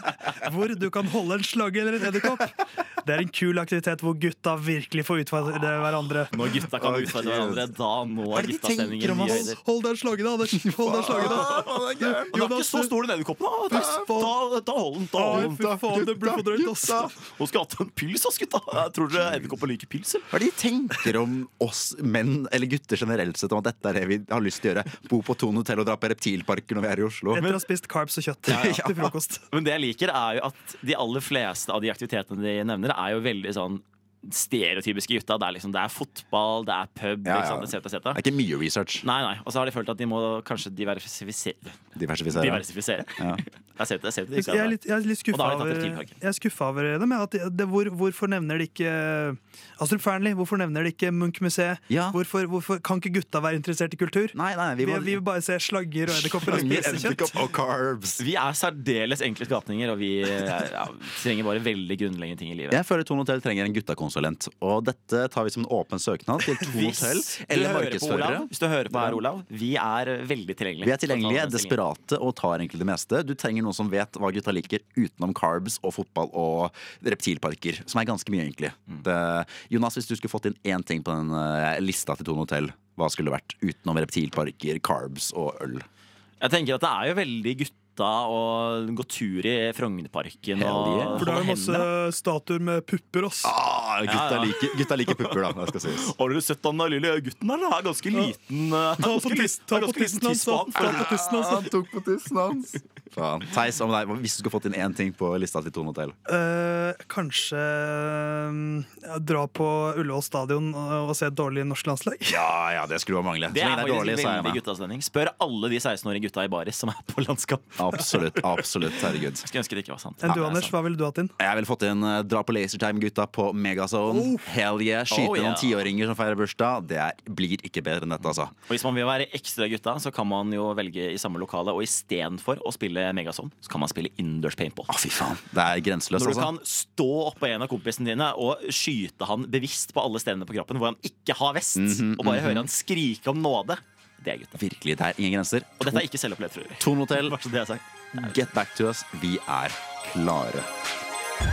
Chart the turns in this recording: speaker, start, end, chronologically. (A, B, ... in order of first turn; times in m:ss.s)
0:00.4-0:06.3 A
0:06.3-0:09.6 B
0:06.9-0:07.5 C
0:08.3-0:09.5 C
0:09.2-0:12.9 A
0:10.8-0:20.3 B
0:13.7-0:14.4 A
0:15.1-0:17.1 A
0:20.3-0:27.5 C
0:27.3-0:29.5 A
0:28.5-0:38.2 B
0:37.2-0:39.0 C
0:39.0-0:46.1 B
0:41.9-0:43.4 C
0:44.4-0:57.4 A
0:51.9-0:52.2 C
0:54.3-0:55.2 C
0:56.1-0:58.2 C
0:56.6-0:57.1 B
0:58.2-1:02.8 B
1:02.7-1:09.2 C
1:06.7-1:11.8 B
1:10.8-1:25.8 C
1:26.4-1:31.9 B
1:30.6-1:31.3 C
1:31.2-1:33.5 A
1:33.4-1:36.1 C
1:34.1-1:41.7 B
1:39.0-1:41.8 A
1:43.1-1:46.2 C
1:46.3-1:52.4 A
1:52.3-1:54.6 C
1:53.5-1:58.2 B
1:57.8-1:59.5 C
1:59.4-2:00.7 B
2:00.2-2:01.3 A
2:01.4-2:08.5 C
2:04.1-2:04.4 A
2:05.1-2:05.9 B
2:08.2-2:15.0 B
2:14.9-2:16.5 C
2:16.1-2:24.6 B
2:21.8-2:22.7 C
2:24.6-2:26.0 C
2:25.8-2:28.4 B
2:26.8-2:27.4 C
2:28.1-2:30.7 C